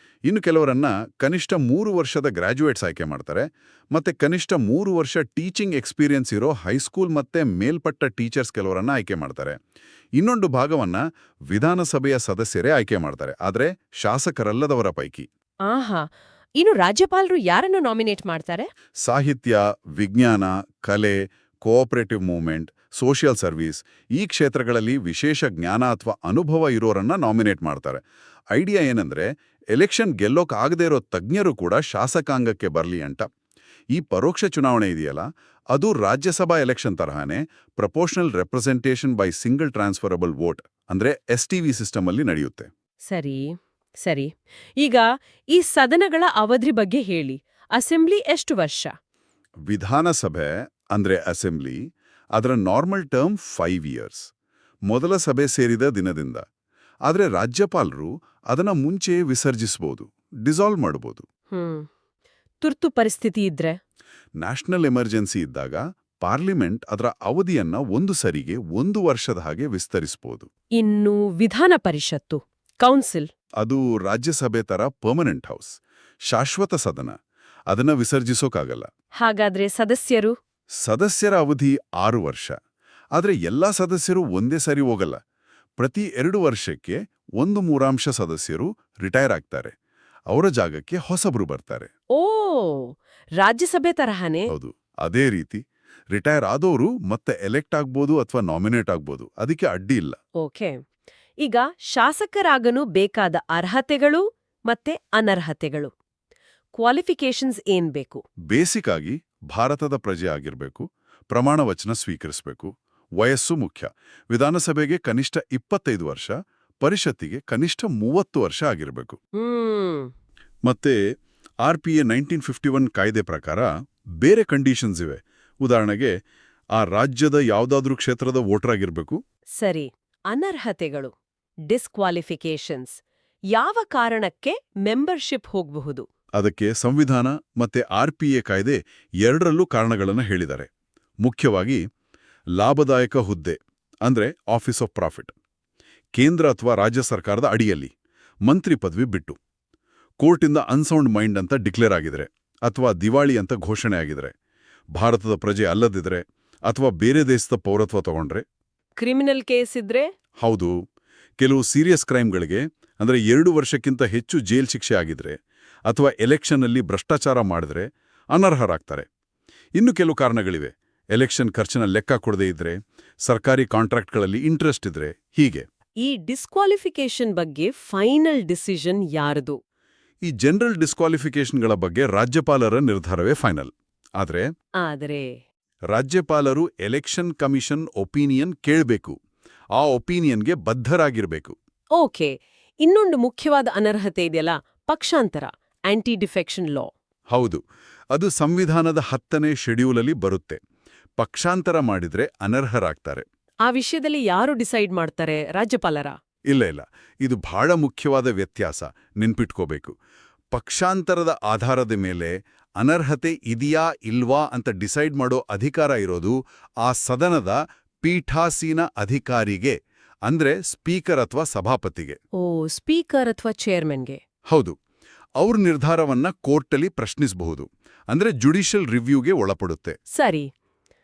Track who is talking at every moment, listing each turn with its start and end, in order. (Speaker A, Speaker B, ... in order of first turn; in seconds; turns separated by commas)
Speaker A: 0.3-9.6, Speaker A: 10.2-15.3, Speaker B: 15.7-16.1, Speaker B: 16.6-18.7, Speaker A: 19.0-33.3, Speaker A: 33.9-42.7, Speaker B: 43.1-48.9, Speaker A: 49.7-51.8, Speaker A: 52.4-54.3, Speaker A: 54.9-56.4, Speaker A: 57.1-61.2, Speaker B: 61.5-61.9, Speaker B: 62.6-63.8, Speaker A: 64.4-70.5, Speaker B: 70.8-73.3, Speaker A: 73.6-75.8, Speaker A: 76.3-77.1, Speaker A: 77.7-78.9, Speaker B: 79.2-80.3, Speaker A: 80.8-82.5, Speaker A: 83.2-85.2, Speaker A: 85.8-89.7, Speaker A: 90.3-91.9, Speaker B: 92.2-94.5, Speaker A: 94.5-100.2, Speaker B: 100.4-100.8, Speaker B: 101.4-105.9, Speaker B: 106.8-108.2, Speaker A: 108.5-119.2, Speaker B: 119.4-120.1, Speaker A: 120.7-121.0, Speaker A: 121.6-123.7, Speaker A: 124.2-126.1, Speaker A: 126.7-129.2, Speaker B: 129.6-131.1, Speaker B: 131.7-133.0, Speaker B: 133.5-136.1, Speaker A: 136.3-140.7, Speaker A: 141.2-141.8, Speaker A: 142.6-145.3, Speaker A: 146.2-147.9, Speaker A: 148.4-149.4, Speaker A: 150.2-154.3, Speaker A: 154.9-158.4, Speaker B: 159.0-160.1, Speaker A: 160.4-160.8, Speaker A: 161.4-165.4, Speaker A: 165.9-169.1, Speaker A: 169.8-175.7, Speaker B: 176.0-179.6, Speaker A: 180.2-184.5, Speaker B: 184.8-185.4, Speaker A: 185.9-189.2, Speaker A: 189.8-191.6, Speaker B: 192.0-196.9, Speaker A: 197.3-197.6, Speaker A: 198.1-200.6, Speaker A: 201.2-203.2, Speaker B: 203.7-206.2, Speaker A: 206.5-209.9, Speaker A: 210.5-222.2, Speaker B: 222.4-224.2, Speaker A: 224.5-224.8, Speaker A: 225.4-230.0, Speaker B: 230.1-230.5